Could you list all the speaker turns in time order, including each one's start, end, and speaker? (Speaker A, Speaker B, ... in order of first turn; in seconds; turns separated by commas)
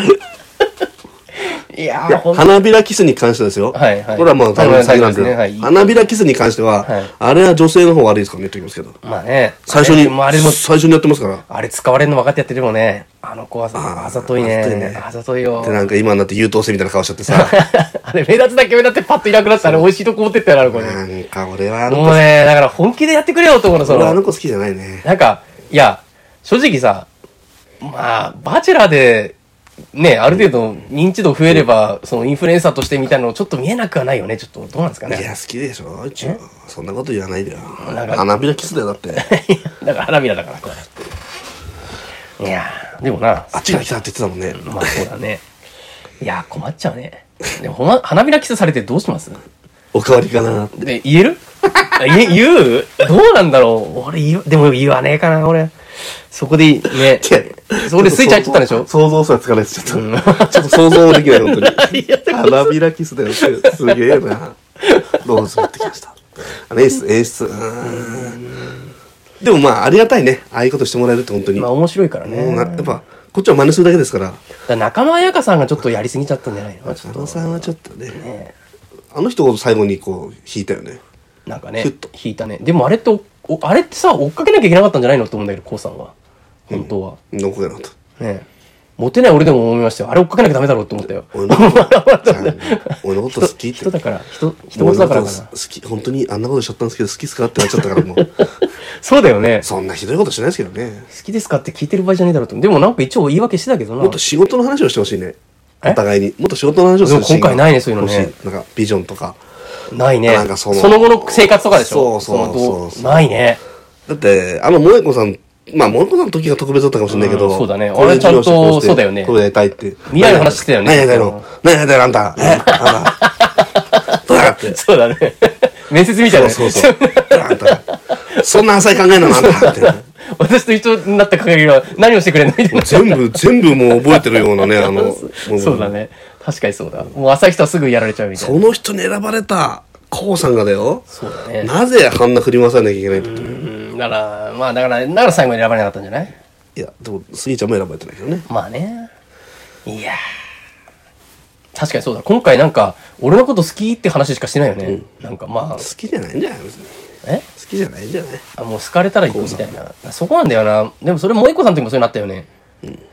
Speaker A: 1.4-2.6, Speaker B: 2.1-9.0, Speaker A: 3.7-5.9, Speaker A: 6.8-7.1, Speaker A: 9.0-10.6, Speaker B: 9.7-11.4, Speaker A: 11.5-15.9, Speaker B: 13.7-15.0, Speaker B: 15.6-17.6, Speaker A: 17.3-21.0, Speaker B: 20.7-22.2, Speaker A: 21.9-24.2, Speaker B: 23.8-25.1, Speaker A: 25.0-27.1, Speaker A: 27.8-29.4, Speaker A: 29.9-35.3, Speaker B: 35.1-39.3, Speaker A: 37.8-38.3, Speaker A: 39.1-41.0, Speaker A: 42.4-44.0, Speaker B: 43.5-45.0, Speaker A: 44.5-45.4, Speaker A: 46.2-49.4, Speaker B: 49.9-50.9, Speaker A: 50.8-55.7, Speaker A: 56.3-58.9, Speaker B: 56.9-64.6, Speaker A: 59.9-62.8, Speaker A: 63.4-63.9, Speaker A: 64.8-65.8, Speaker B: 65.1-68.5, Speaker A: 67.8-68.9, Speaker B: 69.4-71.7, Speaker A: 71.6-73.0, Speaker B: 72.2-74.4, Speaker A: 74.7-78.5, Speaker B: 76.9-78.2, Speaker B: 79.1-81.0, Speaker A: 81.5-86.1, Speaker B: 81.8-82.1, Speaker A: 86.7-87.2, Speaker B: 86.7-87.9, Speaker A: 88.2-88.5, Speaker A: 89.0-95.5, Speaker B: 91.3-93.9, Speaker B: 94.7-98.3, Speaker A: 97.6-99.7, Speaker B: 99.6-101.1, Speaker A: 101.1-104.2, Speaker B: 104.0-109.4, Speaker A: 107.0-108.3, Speaker A: 109.9-113.6, Speaker B: 110.3-113.2, Speaker B: 114.1-123.3, Speaker A: 117.1-119.3, Speaker A: 120.1-121.5, Speaker A: 122.4-128.5, Speaker B: 124.1-124.8, Speaker B: 126.2-127.8, Speaker B: 128.3-130.0, Speaker A: 129.2-138.6, Speaker B: 132.7-135.9, Speaker B: 138.4-141.1, Speaker A: 141.1-141.7, Speaker B: 141.6-143.7, Speaker A: 143.2-146.4, Speaker B: 146.8-148.5, Speaker A: 148.5-149.1, Speaker A: 149.9-150.2, Speaker A: 151.8-155.9, Speaker B: 155.8-156.9, Speaker B: 157.6-158.4, Speaker A: 158.6-162.5, Speaker B: 159.3-159.7